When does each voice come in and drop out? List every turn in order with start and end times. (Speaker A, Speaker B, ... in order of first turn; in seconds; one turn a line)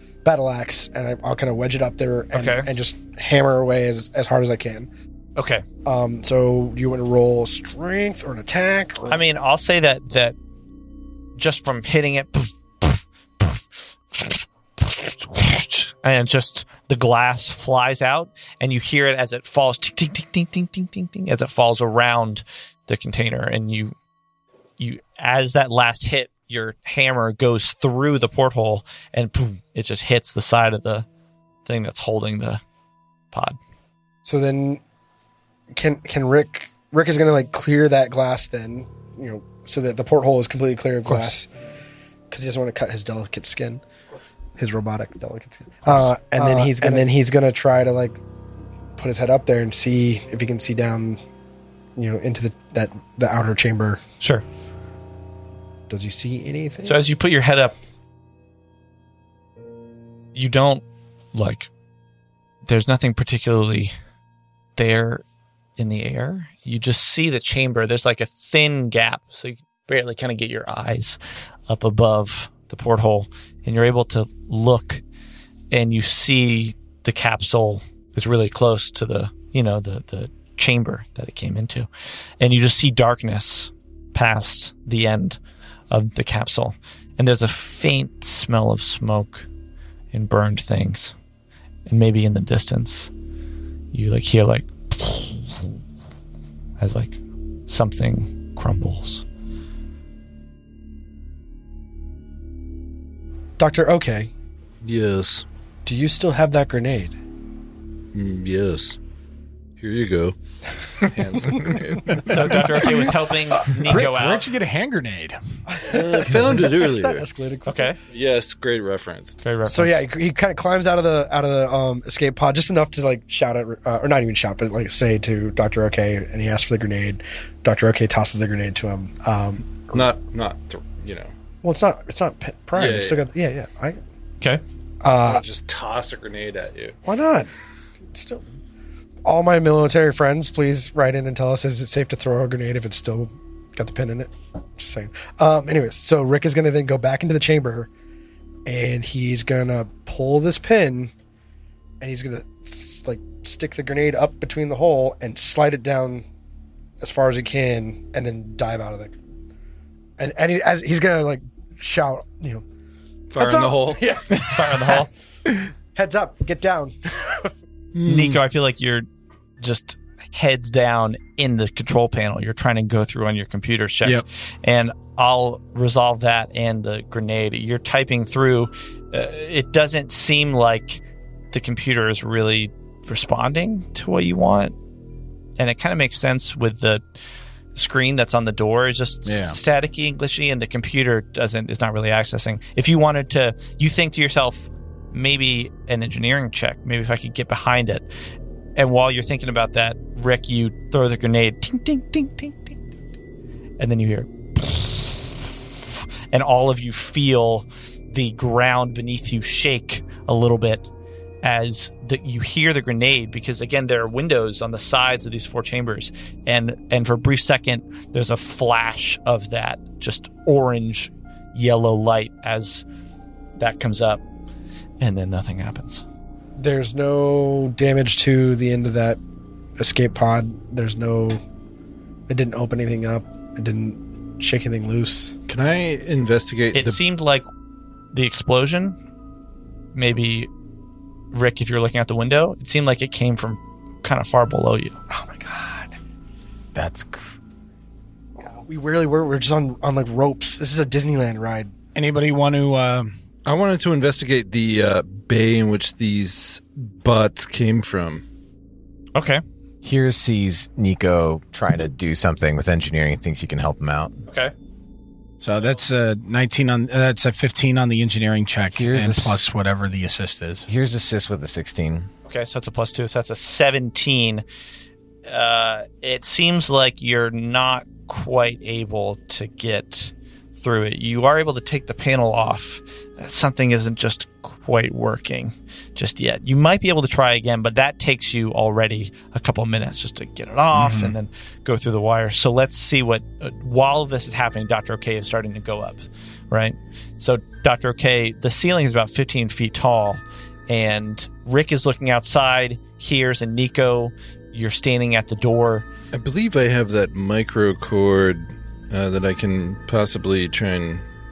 Speaker A: 0.2-4.9
Speaker B: 2.3-2.7
Speaker B: 5.3-5.6
Speaker A: 5.8-9.2
Speaker B: 9.1-10.3
Speaker B: 11.3-23.9
Speaker B: 24.8-31.1
Speaker B: 31.6-32.6
Speaker B: 33.3-33.6
Speaker A: 34.2-34.8
Speaker A: 35.7-41.5
Speaker B: 41.0-41.3
Speaker A: 42.3-43.8
Speaker A: 44.6-48.2
Speaker B: 45.9-47.1
Speaker A: 49.0-51.2
Speaker A: 52.0-54.0
Speaker A: 55.9-57.0
Speaker B: 56.8-57.7
Speaker B: 60.3-61.7
Speaker B: 62.6-63.9
Speaker B: 64.8-65.2
Speaker B: 65.8-71.2
Speaker B: 71.7-75.0
Speaker B: 75.7-81.9
Speaker B: 82.4-85.4
Speaker B: 85.9-89.5
Speaker B: 90.1-91.1
Speaker B: 91.8-93.1
Speaker B: 93.9-95.7
Speaker B: 96.8-99.2
Speaker A: 103.6-104.3
Speaker C: 104.8-105.4
Speaker A: 105.8-107.1
Speaker C: 108.1-109.0
Speaker C: 109.8-110.3
Speaker C: 111.0-112.6
Speaker D: 112.0-115.4
Speaker B: 112.2-114.5
Speaker A: 115.7-118.0
Speaker C: 115.8-117.2
Speaker B: 117.6-118.0
Speaker C: 118.1-119.3
Speaker B: 119.4-120.0
Speaker A: 119.6-130.1
Speaker C: 129.9-131.3
Speaker A: 131.6-134.0
Speaker C: 132.7-133.2
Speaker A: 135.0-135.4
Speaker C: 135.2-137.0
Speaker A: 137.0-137.5
Speaker A: 138.1-138.4
Speaker A: 139.2-147.9
Speaker A: 148.7-151.1
Speaker A: 152.0-156.2
Speaker A: 157.0-159.1
Speaker A: 160.2-162.6
Speaker C: 163.3-164.2
Speaker A: 163.4-165.1
Speaker B: 164.4-165.1
Speaker A: 165.9-167.5
Speaker C: 167.9-168.4
Speaker B: 168.0-169.1
Speaker B: 169.6-184.7
Speaker B: 185.6-187.0
Speaker B: 187.7-198.1
Speaker D: 189.2-189.6
Speaker B: 198.8-202.8
Speaker B: 203.8-210.9
Speaker B: 211.4-222.8
Speaker B: 223.6-224.2
Speaker B: 225.0-226.0
Speaker A: 226.6-229.2
Speaker A: 229.8-231.4
Speaker A: 232.3-235.3
Speaker C: 235.5-237.0
Speaker B: 236.7-237.5
Speaker B: 238.1-239.0
Speaker B: 239.9-240.5
Speaker B: 241.3-245.0
Speaker A: 245.1-245.9
Speaker E: 246.7-247.3
Speaker A: 248.4-251.7
Speaker D: 251.9-253.1
Speaker C: 253.4-258.2
Speaker B: 259.1-259.4
Speaker E: 259.8-264.1
Speaker B: 264.3-264.5
Speaker D: 265.4-270.7
Speaker E: 268.8-269.4
Speaker E: 270.7-272.1
Speaker B: 272.2-274.4
Speaker B: 275.3-305.9
Speaker D: 290.7-291.1
Speaker C: 306.1-311.0